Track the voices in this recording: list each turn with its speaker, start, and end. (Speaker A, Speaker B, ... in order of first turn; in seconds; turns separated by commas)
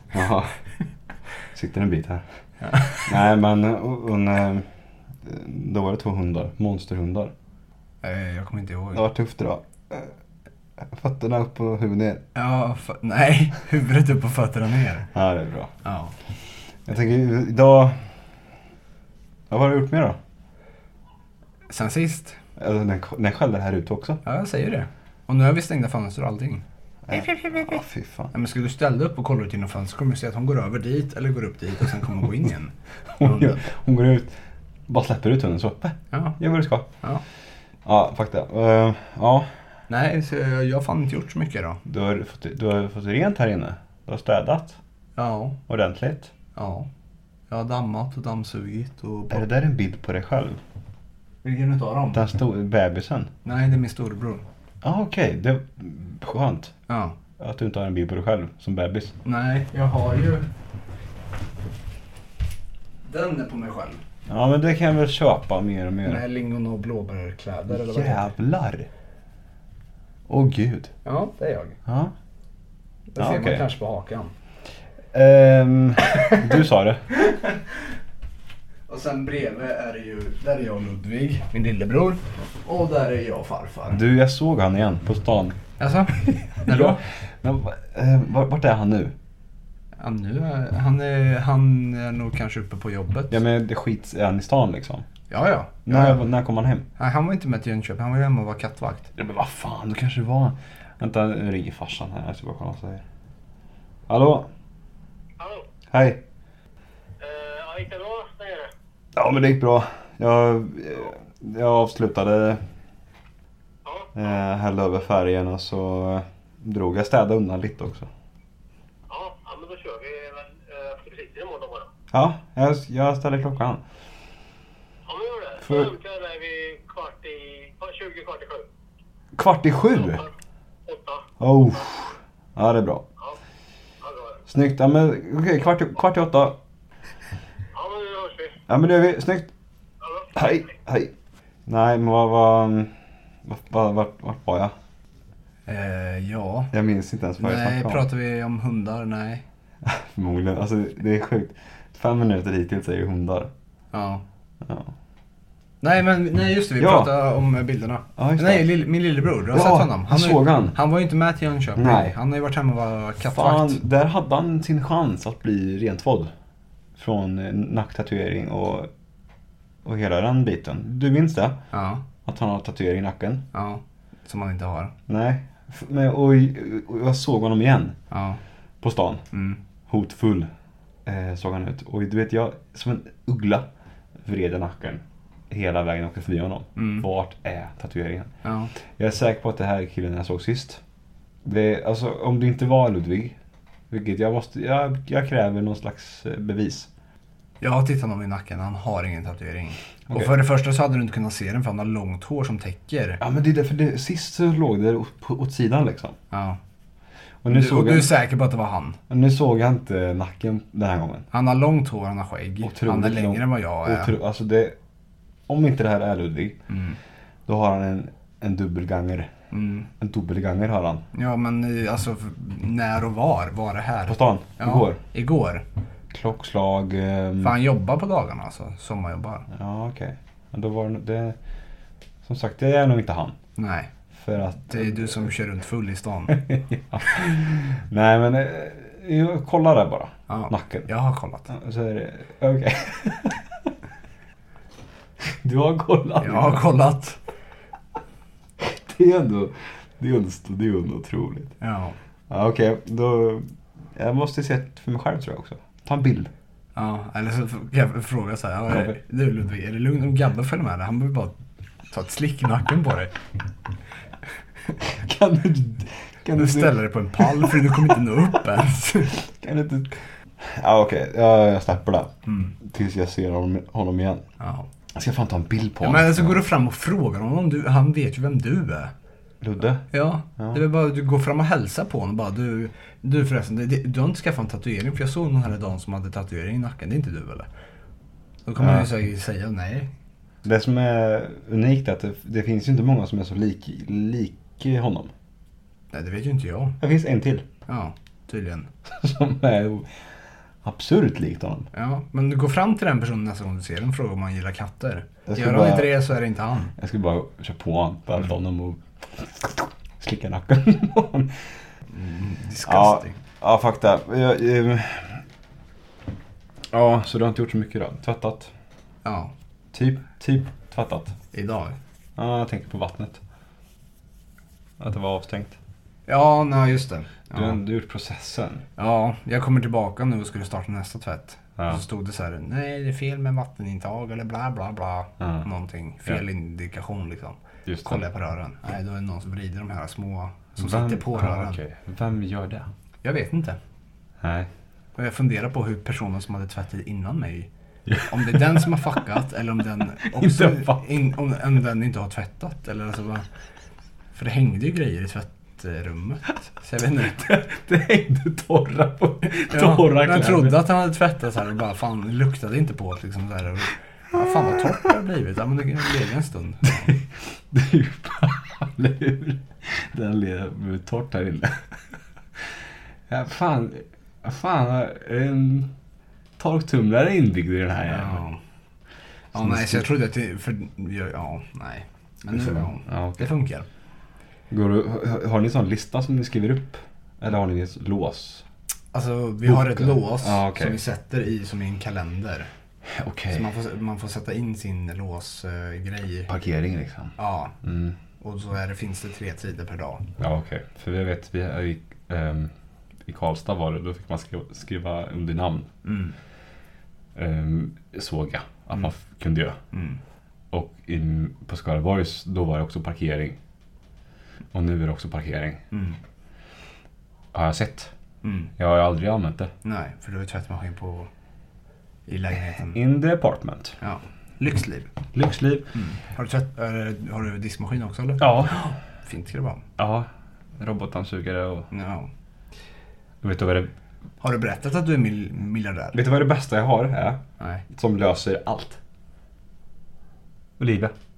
Speaker A: 0.1-0.6, Speaker A: 1.5-2.2, Speaker B: 2.6-3.1, Speaker A: 3.0-4.7, Speaker A: 5.2-7.3, Speaker B: 8.0-9.1, Speaker A: 8.9-10.1, Speaker A: 10.8-12.2, Speaker B: 12.3-15.1, Speaker A: 15.1-15.7, Speaker B: 15.8-16.1, Speaker A: 16.9-18.1, Speaker A: 19.5-20.2, Speaker B: 21.7-22.4, Speaker A: 22.6-24.2, Speaker B: 24.2-27.8, Speaker A: 27.1-28.3, Speaker B: 28.3-33.6, Speaker A: 33.2-34.4, Speaker A: 34.9-36.9, Speaker B: 36.1-36.4, Speaker A: 37.9-39.5, Speaker B: 39.9-41.8, Speaker A: 41.9-44.8, Speaker B: 45.2-45.6, Speaker A: 45.7-46.3, Speaker B: 46.5-46.9, Speaker B: 47.5-49.4, Speaker A: 49.3-50.6, Speaker B: 51.4-52.2, Speaker A: 52.1-53.3, Speaker B: 53.4-54.4, Speaker A: 54.8-56.7, Speaker B: 56.9-57.2, Speaker A: 57.4-59.1, Speaker B: 59.2-60.5, Speaker B: 63.0-64.0, Speaker A: 64.3-66.2, Speaker B: 66.0-68.3, Speaker A: 67.7-68.9, Speaker A: 70.3-70.9, Speaker B: 71.0-71.8, Speaker A: 71.9-72.1, Speaker B: 73.1-74.3, Speaker A: 73.2-73.7, Speaker A: 75.1-77.1, Speaker B: 76.2-76.5, Speaker B: 77.2-77.6, Speaker B: 78.9-84.0, Speaker A: 83.9-85.6, Speaker B: 85.8-87.0, Speaker A: 86.3-89.1, Speaker B: 90.0-93.4, Speaker A: 93.3-95.1, Speaker B: 95.3-96.2, Speaker A: 95.9-96.9, Speaker B: 97.0-99.1, Speaker A: 99.2-103.0, Speaker A: 104.1-104.5, Speaker C: 105.4-105.7, Speaker A: 105.9-106.2, Speaker C: 107.2-108.7, Speaker A: 109.2-112.6, Speaker C: 113.8-114.1, Speaker A: 114.2-118.1, Speaker C: 119.1-121.9, Speaker A: 122.1-123.8, Speaker C: 125.1-128.7, Speaker A: 125.6-125.9, Speaker A: 129.3-130.3, Speaker C: 130.9-131.3, Speaker A: 131.4-133.0, Speaker C: 134.0-134.4, Speaker A: 134.5-136.6, Speaker C: 137.7-138.6, Speaker A: 138.7-139.5, Speaker C: 140.0-140.3, Speaker A: 140.3-141.1, Speaker A: 141.7-144.7, Speaker B: 145.7-146.7, Speaker A: 146.7-148.1, Speaker B: 147.4-149.4, Speaker A: 149.8-153.5, Speaker B: 153.9-154.2, Speaker A: 154.6-154.9, Speaker B: 155.8-163.8, Speaker A: 156.8-157.2, Speaker A: 158.2-158.7, Speaker A: 159.5-160.8, Speaker A: 161.8-162.2, Speaker A: 163.3-166.3, Speaker A: 167.0-168.9, Speaker A: 169.8-171.6, Speaker B: 171.7-172.0, Speaker A: 172.2-173.5, Speaker B: 173.5-174.9, Speaker A: 175.1-178.0, Speaker B: 178.1-178.4, Speaker A: 178.8-179.2, Speaker B: 179.3-179.6, Speaker A: 179.9-180.5, Speaker A: 181.1-183.7, Speaker A: 184.2-188.3, Speaker B: 186.8-187.0, Speaker B: 188.4-188.7, Speaker A: 188.9-190.8, Speaker A: 191.4-193.3, Speaker A: 193.9-196.9, Speaker B: 197.6-203.2, Speaker A: 203.2-206.2, Speaker B: 206.3-206.6, Speaker A: 207.4-208.1, Speaker B: 207.5-209.0, Speaker A: 209.1-211.3, Speaker B: 211.3-214.1, Speaker A: 212.6-214.8, Speaker A: 215.5-216.6, Speaker B: 216.7-217.0, Speaker A: 217.5-219.3, Speaker B: 219.5-219.9, Speaker A: 220.0-221.1, Speaker B: 221.1-225.6, Speaker A: 224.1-225.0, Speaker A: 226.1-227.6, Speaker B: 227.4-229.5, Speaker A: 229.5-231.4, Speaker A: 232.2-233.4, Speaker B: 233.6-233.9, Speaker A: 234.1-235.3, Speaker B: 234.7-236.4, Speaker A: 236.3-240.9, Speaker B: 240.3-241.5, Speaker A: 241.5-243.7, Speaker A: 245.2-246.6, Speaker B: 246.2-247.2, Speaker A: 248.6-251.6, Speaker B: 251.6-252.0, Speaker A: 252.3-256.3, Speaker B: 256.8-261.4, Speaker A: 258.7-259.0, Speaker B: 261.9-263.1, Speaker A: 264.8-268.1, Speaker B: 266.4-269.2, Speaker A: 269.1-274.2, Speaker B: 272.3-272.5, Speaker B: 274.4-274.7, Speaker A: 274.9-276.4, Speaker B: 275.8-278.9, Speaker A: 279.4-280.6, Speaker B: 279.9-287.5, Speaker B: 288.5-289.9, Speaker A: 288.6-288.9, Speaker A: 290.4-295.1, Speaker B: 295.9-296.8, Speaker A: 296.8-297.5, Speaker B: 297.7-298.7, Speaker A: 298.9-299.9, Speaker A: 300.6-301.7, Speaker B: 301.7-306.7, Speaker A: 305.3-305.9, Speaker A: 306.8-311.4, Speaker B: 311.9-313.2, Speaker A: 312.6-315.2, Speaker A: 316.7-318.5, Speaker B: 319.0-319.3, Speaker A: 319.7-321.2, Speaker B: 321.3-321.8, Speaker A: 322.2-323.2, Speaker A: 324.8-325.6, Speaker B: 326.1-327.6, Speaker A: 327.3-328.6, Speaker B: 328.8-341.6, Speaker A: 335.2-335.5, Speaker A: 337.7-338.0, Speaker A: 340.6-342.7, Speaker B: 343.0-343.6, Speaker A: 344.2-344.5, Speaker B: 345.0-347.5, Speaker A: 347.9-348.4, Speaker B: 348.1-353.2, Speaker A: 350.0-350.8, Speaker B: 354.1-357.2, Speaker A: 357.1-360.6, Speaker B: 359.4-366.9, Speaker A: 364.1-364.9, Speaker A: 366.6-371.7, Speaker A: 373.1-375.7, Speaker A: 376.4-378.2, Speaker B: 377.9-378.4, Speaker B: 379.3-383.7, Speaker A: 379.3-379.9, Speaker A: 382.3-383.3, Speaker A: 384.5-388.4, Speaker B: 388.9-392.5, Speaker A: 389.4-390.8, Speaker A: 392.9-393.5, Speaker B: 393.3-396.3, Speaker A: 396.3-398.0, Speaker B: 397.2-397.6, Speaker B: 398.2-400.1, Speaker A: 400.2-402.5, Speaker A: 403.1-405.7, Speaker B: 405.8-406.1, Speaker A: 407.1-409.6, Speaker B: 409.7-410.0, Speaker A: 410.5-413.4, Speaker A: 414.5-415.6, Speaker B: 415.7-416.0, Speaker A: 417.3-417.9, Speaker B: 418.2-418.5, Speaker A: 418.6-419.5, Speaker B: 419.6-421.1, Speaker B: 422.1-422.8, Speaker A: 422.6-423.8, Speaker B: 423.8-424.9, Speaker A: 425.1-425.7, Speaker B: 425.7-429.6, Speaker A: 428.2-428.7, Speaker A: 429.8-431.7, Speaker B: 431.7-432.1, Speaker A: 433.2-433.7, Speaker B: 434.2-436.0, Speaker A: 435.9-438.8, Speaker A: 440.6-440.9